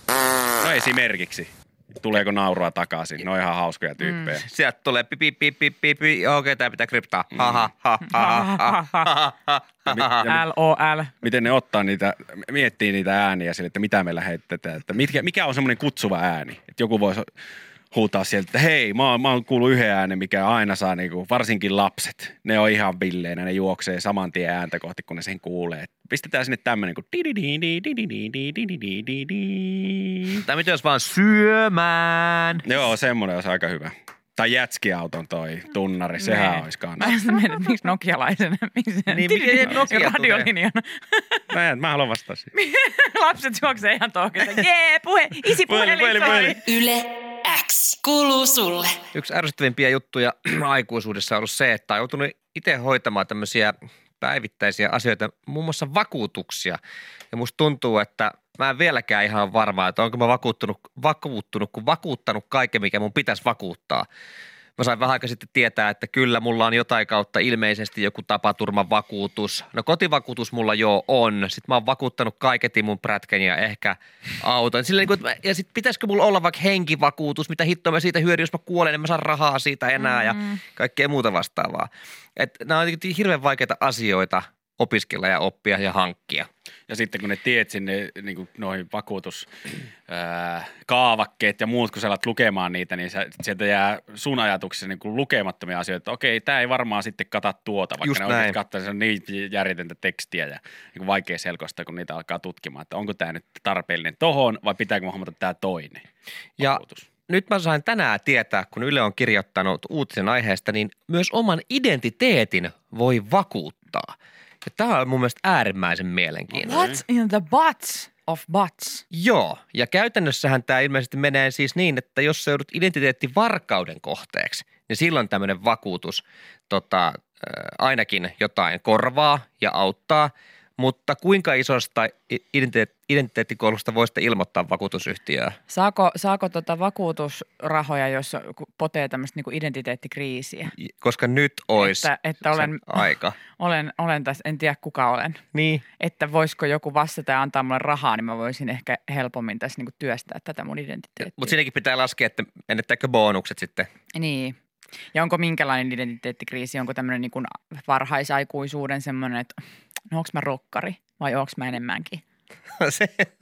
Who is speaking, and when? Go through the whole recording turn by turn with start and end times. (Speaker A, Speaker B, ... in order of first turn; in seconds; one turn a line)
Speaker A: 0.6-4.5
Speaker B: 4.4-10.3
Speaker A: 7.3-7.7
Speaker C: 8.0-9.1
Speaker A: 9.9-10.4
Speaker C: 10.2-11.1
Speaker A: 11.2-17.3
Speaker A: 17.9-30.4
Speaker B: 30.4-32.6
Speaker A: 32.6-37.2
Speaker C: 36.2-41.4
Speaker B: 39.1-40.5
Speaker A: 41.5-42.5
Speaker C: 42.5-46.6
Speaker A: 45.5-46.6
Speaker D: 46.6-49.0
Speaker B: 49.1-56.8
Speaker B: 57.3-64.0
Speaker B: 64.8-86.5
Speaker C: 80.0-80.5
Speaker A: 86.9-106.0
Speaker B: 98.0-98.5
Speaker B: 106.6-114.1
Speaker A: 106.6-107.1
Speaker B: 114.6-116.9
Speaker A: 116.6-117.0
Speaker C: 116.6-119.0
Speaker B: 119.1-135.6
Speaker C: 135.7-140.7
Speaker B: 140.8-143.3
Speaker C: 141.8-145.4
Speaker B: 145.5-145.8
Speaker C: 146.0-151.5
Speaker B: 151.2-153.9
Speaker C: 154.1-154.6
Speaker C: 155.1-159.6
Speaker C: 160.1-162.2
Speaker B: 162.8-163.3